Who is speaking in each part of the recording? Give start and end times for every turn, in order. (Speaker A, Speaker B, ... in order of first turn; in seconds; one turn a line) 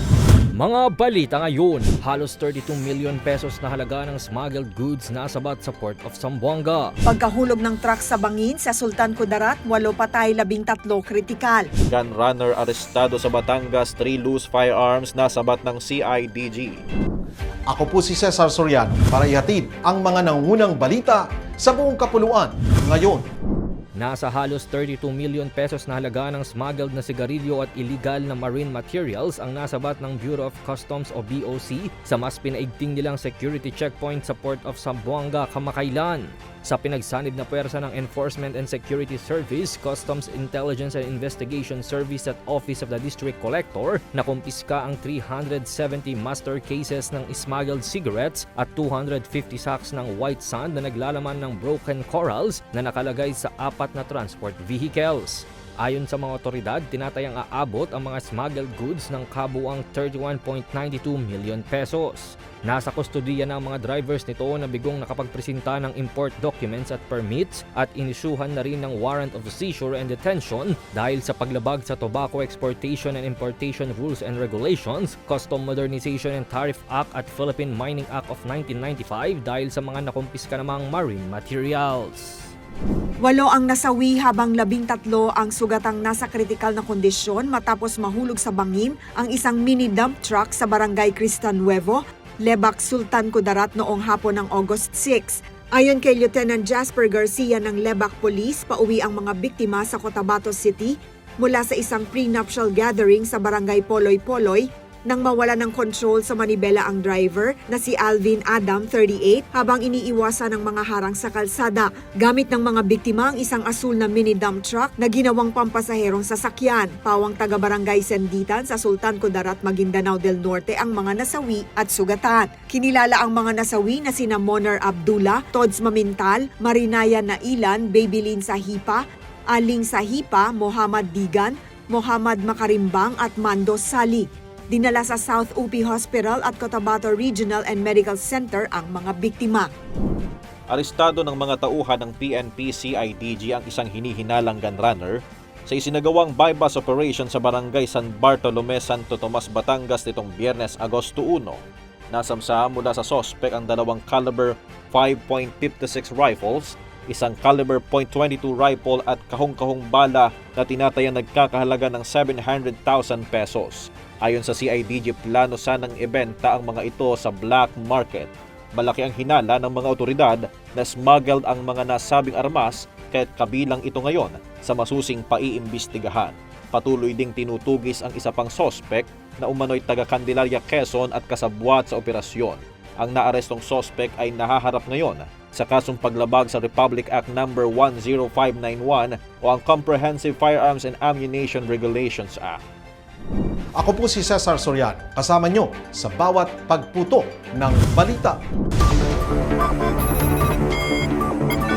Speaker A: 0.5-6.9
Speaker B: 7.0-11.7
Speaker C: 11.9-16.8
Speaker D: 17.7-23.3
Speaker A: 23.9-82.5
Speaker B: 83.2-139.7
Speaker C: 140.7-192.6
Speaker D: 193.8-198.4